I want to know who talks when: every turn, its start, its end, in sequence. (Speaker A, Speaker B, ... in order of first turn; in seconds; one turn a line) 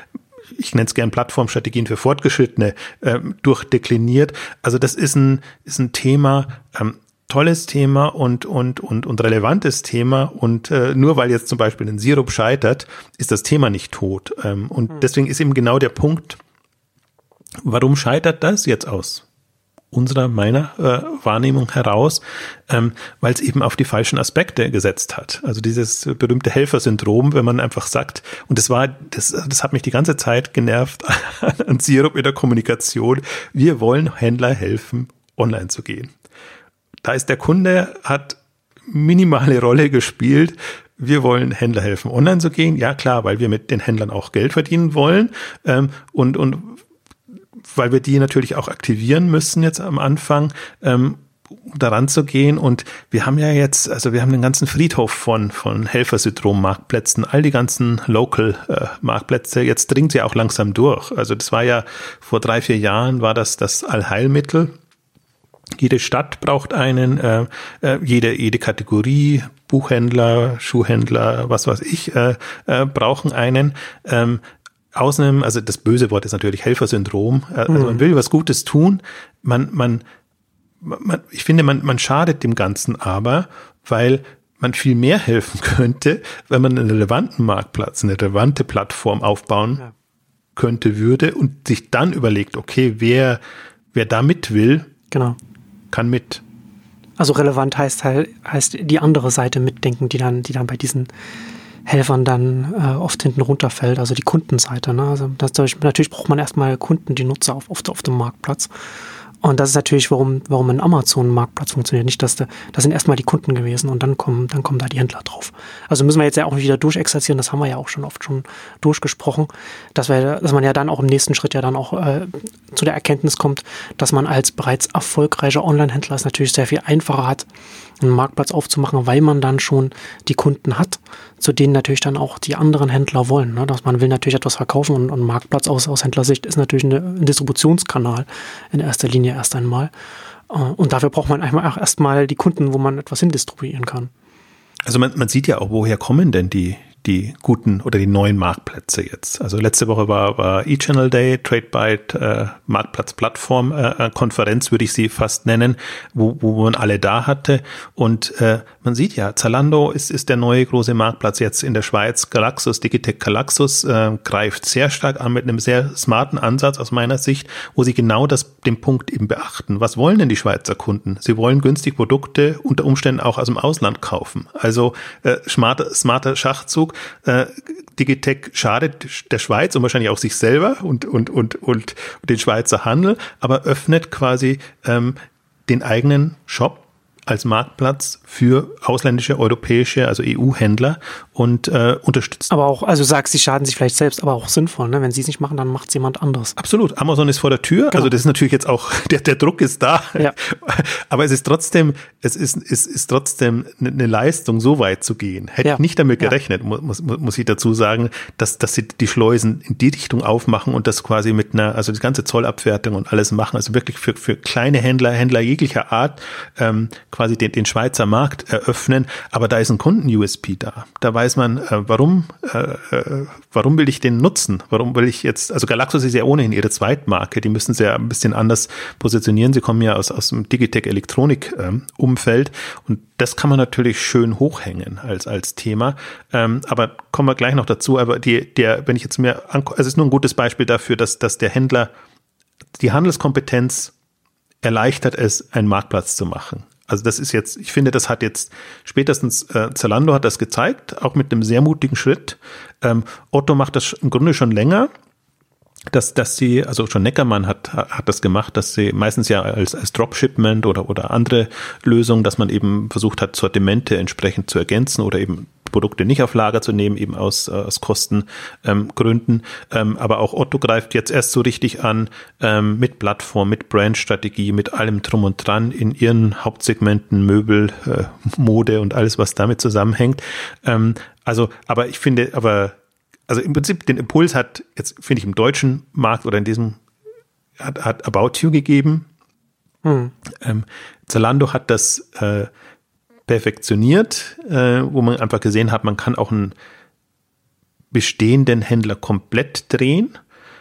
Speaker A: 0.6-16.4
Speaker A: 17.6-19.3
Speaker A: 19.9-36.1
Speaker A: 37.0-46.8
Speaker A: 47.7-64.7
Speaker A: 65.8-74.4
Speaker A: 74.9-80.0
Speaker B: 77.7-78.0
Speaker A: 80.8-89.9
Speaker A: 90.6-93.4
Speaker A: 93.9-94.9
Speaker B: 95.1-95.4
Speaker A: 95.9-96.4
Speaker B: 97.2-101.1
Speaker B: 101.9-108.7
Speaker B: 109.4-127.5
Speaker B: 128.0-139.9
Speaker B: 140.5-144.1
Speaker A: 144.8-185.2
Speaker A: 185.7-192.5
Speaker B: 192.5-196.6
Speaker A: 196.6-241.9
Speaker B: 205.6-206.3
Speaker A: 242.8-243.9
Speaker A: 244.6-254.9
Speaker A: 255.9-286.8
Speaker A: 287.6-289.1
Speaker B: 289.8-290.1
Speaker A: 290.4-292.5
Speaker A: 293.3-296.6
Speaker A: 297.9-300.1